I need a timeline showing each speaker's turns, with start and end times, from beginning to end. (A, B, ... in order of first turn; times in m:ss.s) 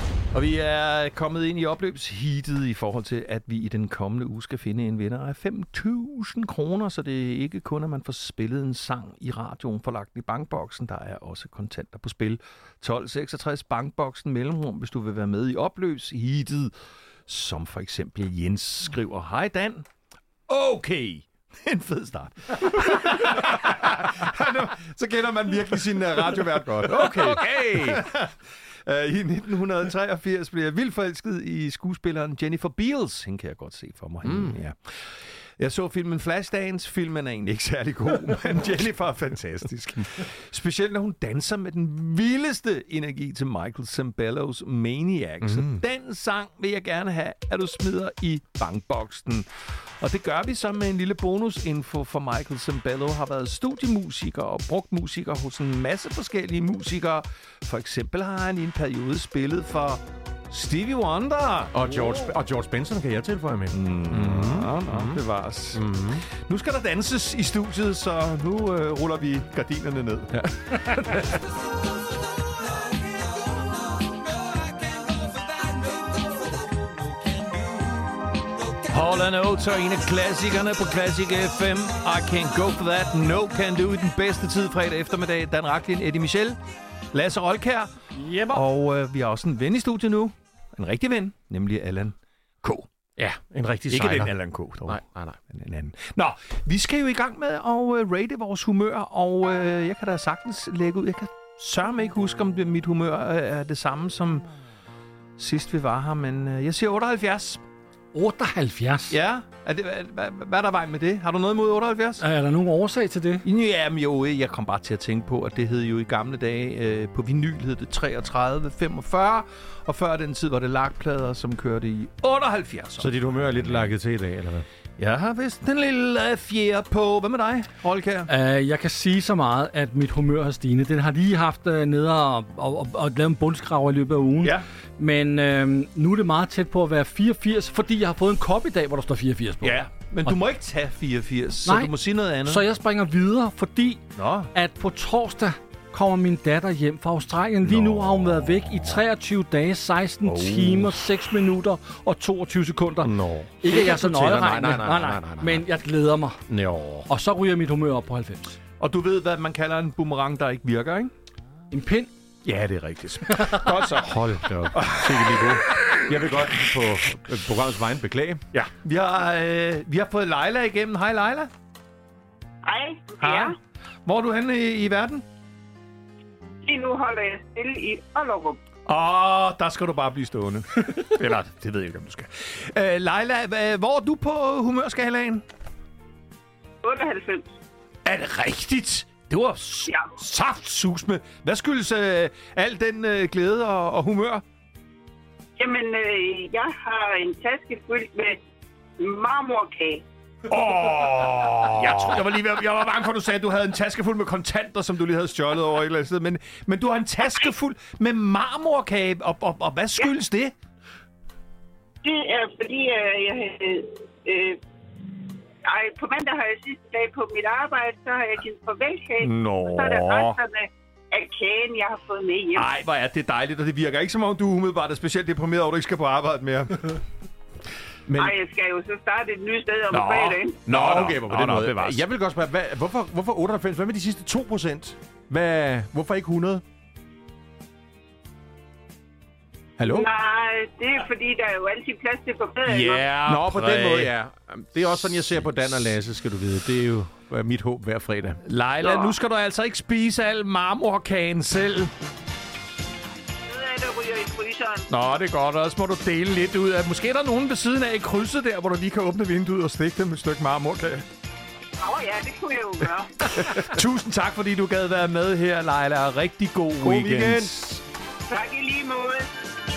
0:00.3-0:16.7 A
0:17.3-0:19.9 A
0:20.5-1:02.1 A
0:26.8-0:28.1 B
0:34.2-0:34.6 B
0:45.4-0:45.7 B
1:01.7-1:05.2 B
1:03.7-1:11.4 A
1:05.7-1:06.2 B
1:10.3-1:11.4 B
1:15.6-1:16.6 A
1:18.9-1:26.6 A
1:27.1-1:27.9 A
1:28.2-1:28.6 C
1:28.5-1:32.9 A
1:33.2-1:35.4 B
1:33.9-1:35.0 A
1:35.5-1:44.5 A
1:45.4-1:47.6 A
1:48.1-1:49.2 C
1:49.1-1:52.2 A
1:52.2-1:53.5 C
1:53.4-2:03.9 A
2:03.0-2:04.7 B
2:05.0-2:08.3 A
2:08.3-2:20.3 C
2:19.6-2:22.6 A
2:21.7-2:21.9 C
2:22.4-2:36.4 C
2:24.2-2:24.5 A
2:27.6-2:28.2 B
2:30.3-2:30.9 A
2:33.0-2:35.6 B
2:36.5-2:37.1 B
2:37.1-2:38.6 C
2:38.8-2:41.1 A
2:41.7-2:42.1 C
2:42.4-2:46.0 A
2:43.3-2:43.9 C
2:43.9-2:48.6 B
2:48.5-2:51.5 A
2:52.6-2:53.6 D
2:53.2-2:55.2 A
2:56.6-2:58.6 D
2:58.9-3:05.4 A
3:06.8-3:07.5 D
3:08.0-3:14.4 A
3:15.6-3:18.4 D
3:19.0-3:20.0 D
3:20.5-3:30.5 A
3:32.0-3:34.6 D
3:35.6-3:42.7 D
3:39.2-3:40.4 A
3:42.5-3:47.0 A
3:48.1-3:48.4 B
3:48.2-3:50.6 D
3:49.9-3:52.0 A
3:50.7-3:56.6 B
3:59.8-4:00.1 B
3:59.9-4:03.0 D
4:02.7-4:04.1 A
4:03.2-4:08.4 B
4:08.4-4:11.9 A
4:08.8-4:09.1 D
4:13.5-4:14.9 D
4:14.9-4:21.0 A
4:21.8-4:23.2 D
4:23.2-4:27.8 A
4:23.4-4:23.7 B
4:26.8-4:27.7 B
4:28.3-4:29.3 D